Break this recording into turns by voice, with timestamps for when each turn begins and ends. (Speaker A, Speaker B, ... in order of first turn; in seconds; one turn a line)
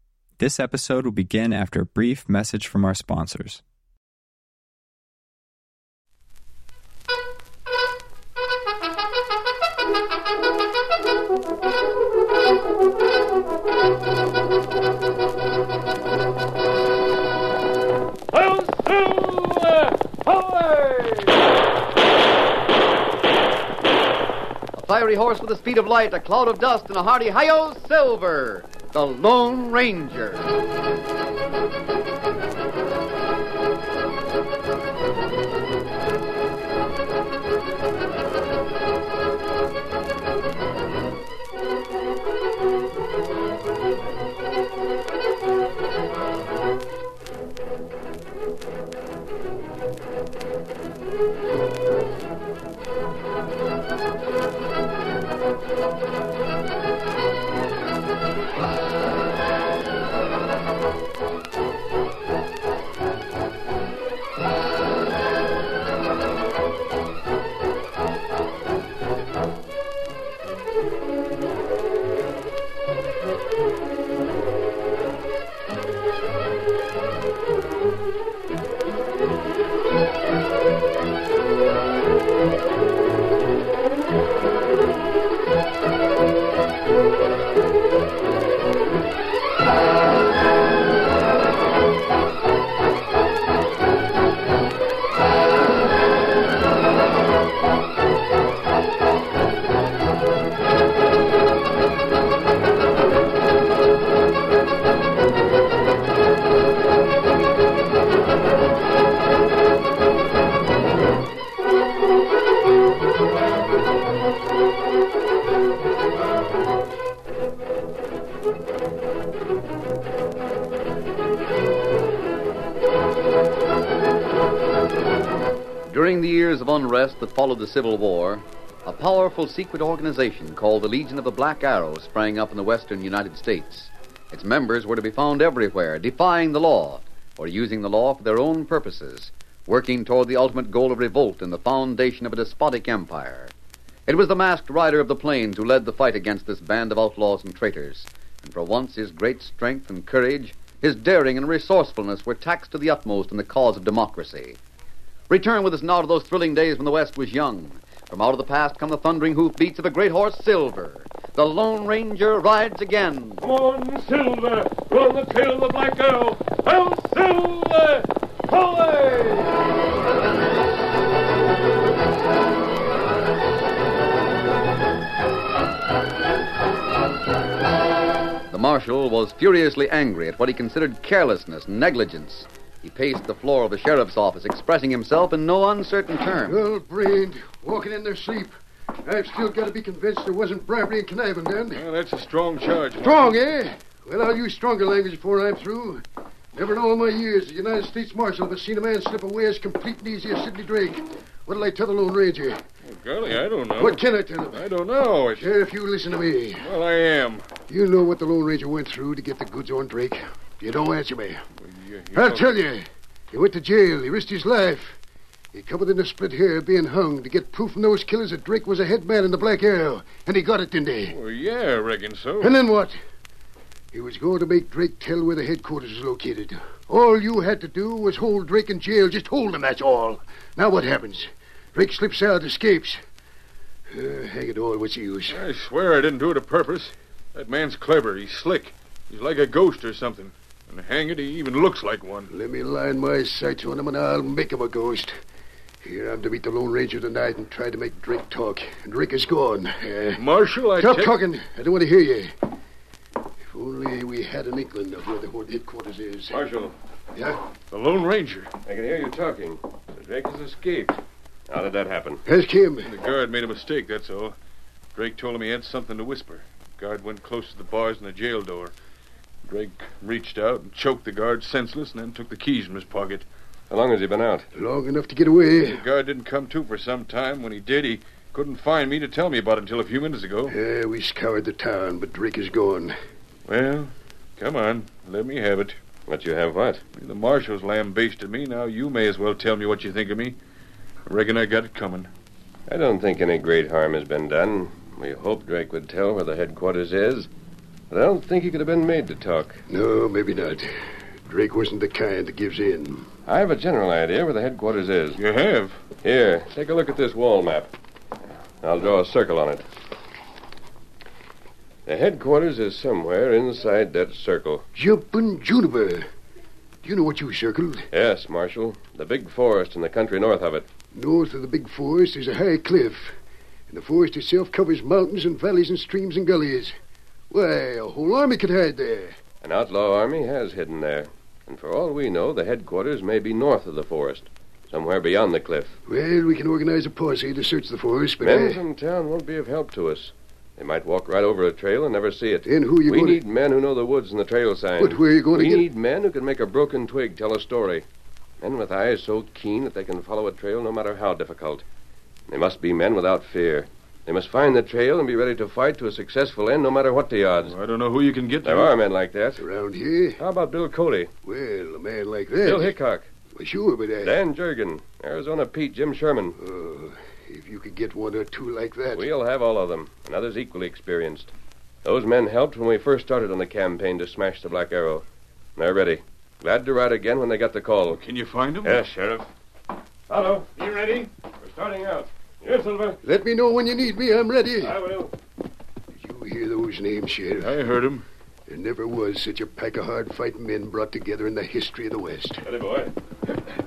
Speaker A: 0.4-3.6
Speaker B: 18.3-21.4
Speaker C: 24.7-30.5
Speaker C: 125.9-143.5
Speaker C: 144.1-154.6
Speaker C: 155.3-163.4
Speaker B: 163.4-169.5
Speaker C: 178.5-186.6
Speaker D: 186.4-191.8
Speaker E: 191.7-193.4
Speaker D: 193.0-196.0
Speaker D: 196.5-202.6
Speaker E: 202.8-205.5
Speaker D: 203.8-204.7
Speaker D: 205.4-206.7
Speaker E: 206.6-207.5
Speaker D: 207.7-211.4
Speaker E: 211.6-212.5
Speaker D: 212.1-215.0
Speaker D: 215.5-221.2
Speaker E: 221.1-222.6
Speaker D: 222.4-223.0
Speaker D: 223.9-233.0
Speaker D: 233.9-235.4
Speaker E: 235.3-242.3
Speaker D: 242.3-245.2
Speaker D: 245.8-252.3
Speaker E: 250.2-251.2
Speaker D: 253.5-256.4
Speaker B: 256.3-256.7
Speaker E: 257.7-258.5
Speaker B: 258.6-262.2
Speaker D: 262.3-262.9
Speaker E: 262.8-264.4
Speaker E: 264.9-268.7
Speaker E: 269.4-273.2
Speaker B: 273.7-274.5
Speaker D: 274.5-275.8
Speaker E: 275.5-280.5
Speaker D: 280.5-282.9
Speaker E: 283.5-285.8
Speaker B: 286.1-286.8
Speaker E: 286.9-290.4
Speaker E: 291.1-292.1
Speaker B: 292.7-297.3
Speaker B: 297.9-299.6
Speaker D: 299.7-300.7
Speaker D: 301.2-303.1
Speaker B: 303.2-305.2
Speaker E: 305.1-305.8
Speaker B: 306.0-307.7
Speaker B: 308.6-309.7
Speaker B: 311.9-314.6
Speaker D: 314.7-316.1
Speaker D: 316.8-317.8
Speaker B: 317.9-320.7
Speaker D: 320.9-323.1
Speaker D: 323.7-326.8
Speaker D: 327.3-329.2
Speaker B: 329.4-335.8
Speaker D: 335.9-338.6
Speaker B: 338.2-347.9
Speaker D: 342.4-343.2
Speaker D: 344.8-345.6
Speaker B: 348.4-351.6
Speaker B: 352.3-357.6
Speaker E: 357.4-358.7
Speaker B: 358.4-359.4
Speaker D: 359.4-360.2
Speaker B: 360.2-361.1
Speaker D: 361.2-362.7
Speaker B: 362.4-363.1
Speaker D: 363.4-364.1
Speaker B: 364.0-366.4
Speaker D: 366.4-369.0
Speaker B: 368.9-371.3
Speaker B: 371.8-375.0
Speaker B: 375.6-378.0
Speaker E: 377.9-378.8
Speaker B: 378.6-379.3
Speaker B: 380.1-380.7
Speaker B: 381.4-383.0
Speaker D: 383.0-384.8
Speaker B: 384.6-385.1
Speaker D: 385.9-387.6
Speaker E: 387.4-388.0
Speaker D: 388.5-392.4
Speaker B: 392.4-392.9